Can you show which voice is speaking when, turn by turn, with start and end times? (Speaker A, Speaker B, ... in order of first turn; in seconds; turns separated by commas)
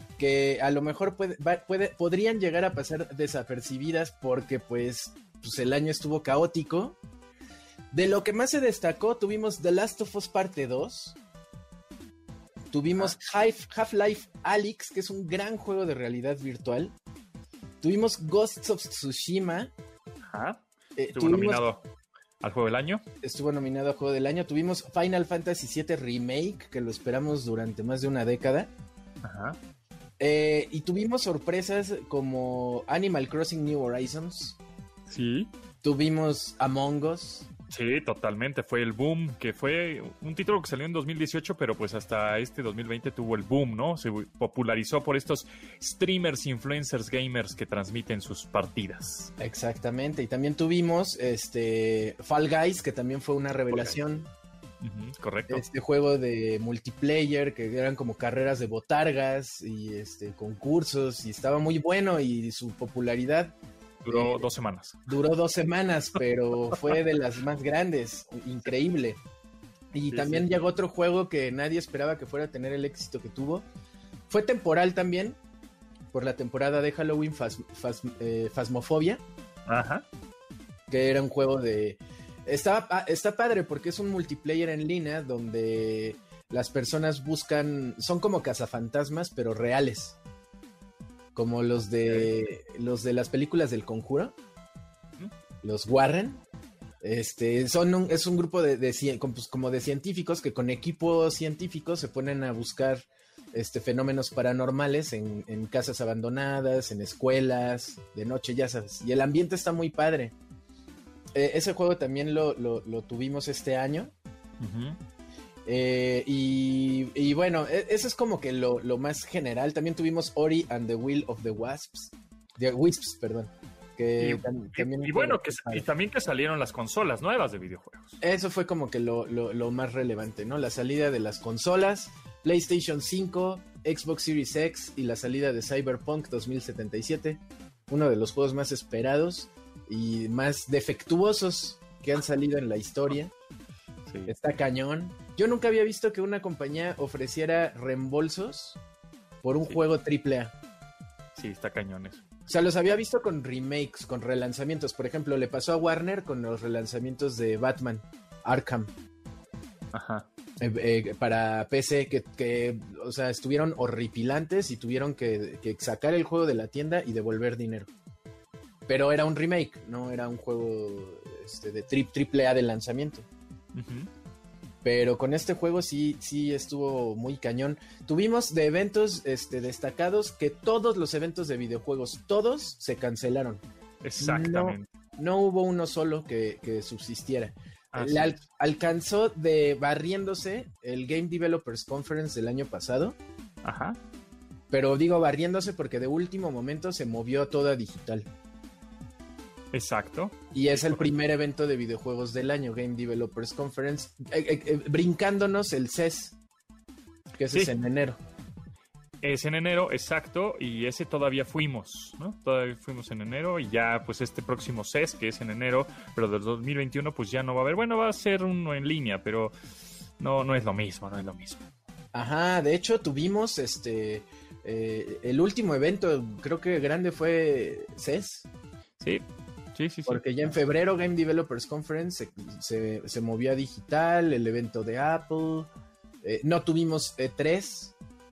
Speaker A: 0.2-7.0, Speaker A: 7.9-11.2, Speaker A: 12.7-16.9, Speaker A: 17.8-19.7, Speaker B: 20.3-20.6, Speaker A: 21.0-21.6, Speaker B: 21.1-21.8, Speaker B: 22.4-23.0, Speaker A: 23.2-28.7, Speaker B: 29.2-29.6, Speaker A: 30.2-34.6, Speaker B: 35.1-35.5, Speaker A: 35.8-37.5, Speaker B: 37.7-49.3, Speaker A: 49.4-54.3, Speaker B: 53.7-54.0, Speaker B: 54.8-55.6, Speaker A: 55.5-63.5, Speaker B: 64.0-65.0, Speaker A: 64.1-64.5, Speaker A: 65.1-69.2, Speaker A: 69.9-73.7, Speaker B: 70.1-70.6, Speaker A: 74.3-75.4, Speaker A: 76.1-79.2, Speaker B: 79.7-80.0, Speaker A: 80.9-90.2, Speaker A: 91.3-94.3, Speaker A: 95.6-96.4, Speaker A: 97.0-110.3, Speaker A: 111.3-114.1, Speaker B: 114.6-115.0, Speaker A: 115.7-125.8, Speaker B: 124.2-128.2, Speaker A: 128.2-143.3, Speaker B: 144.1-144.4, Speaker A: 144.3-148.8, Speaker A: 149.4-150.5, Speaker B: 151.4-152.2, Speaker A: 152.5-158.9, Speaker B: 159.9-160.3, Speaker A: 160.6-167.9, Speaker A: 168.9-173.3, Speaker B: 173.8-174.1, Speaker A: 174.8-183.6, Speaker B: 184.0-184.9, Speaker A: 184.2-193.2, Speaker B: 187.9-188.4, Speaker B: 193.6-194.0, Speaker A: 194.7-198.3, Speaker B: 199.7-201.1, Speaker A: 200.5-206.4, Speaker A: 207.3-208.2, Speaker B: 209.2-219.5, Speaker B: 220.2-221.6, Speaker A: 222.1-228.5, Speaker B: 229.8-230.5, Speaker A: 230.1-235.7, Speaker A: 236.2-237.9